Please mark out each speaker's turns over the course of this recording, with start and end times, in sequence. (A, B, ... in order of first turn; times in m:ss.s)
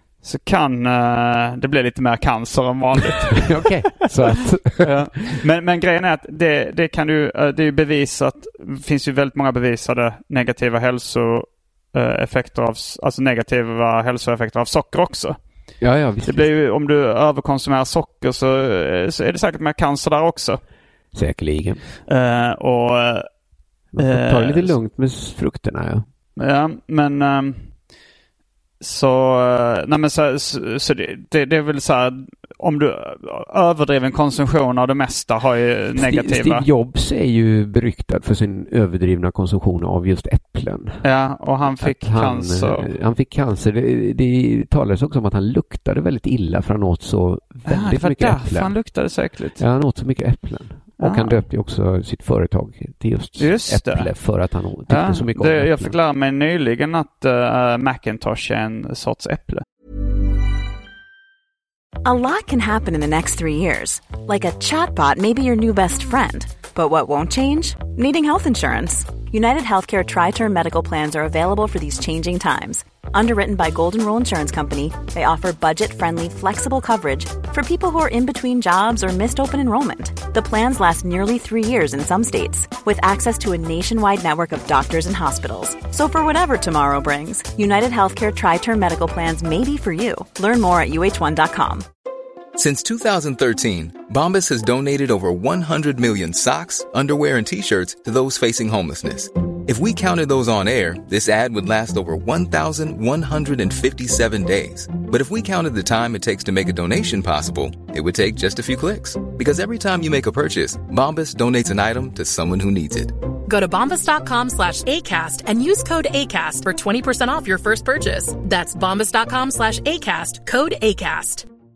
0:00.2-0:03.7 A
0:03.4-0:05.4 B
0:04.8-0:15.4 A
0:15.8-0:16.5 B
0:16.2-0:20.6 A
0:21.1-0:21.8 B
0:22.1-0:23.3 A
0:23.9-0:26.0 B
0:24.0-0:24.8 A
0:26.4-0:27.7 A
0:28.8-0:36.6 A
0:36.0-0:41.0 B
0:41.0-0:42.9 A
0:41.8-0:48.7 B
0:47.6-0:49.6 A
0:49.6-0:56.0 B
0:51.0-0:51.4 A
0:53.4-0:54.1 A
0:54.9-0:59.6 A
1:02.0-1:31.8 C
1:32.6-1:53.1 D
1:53.5-2:01.4 E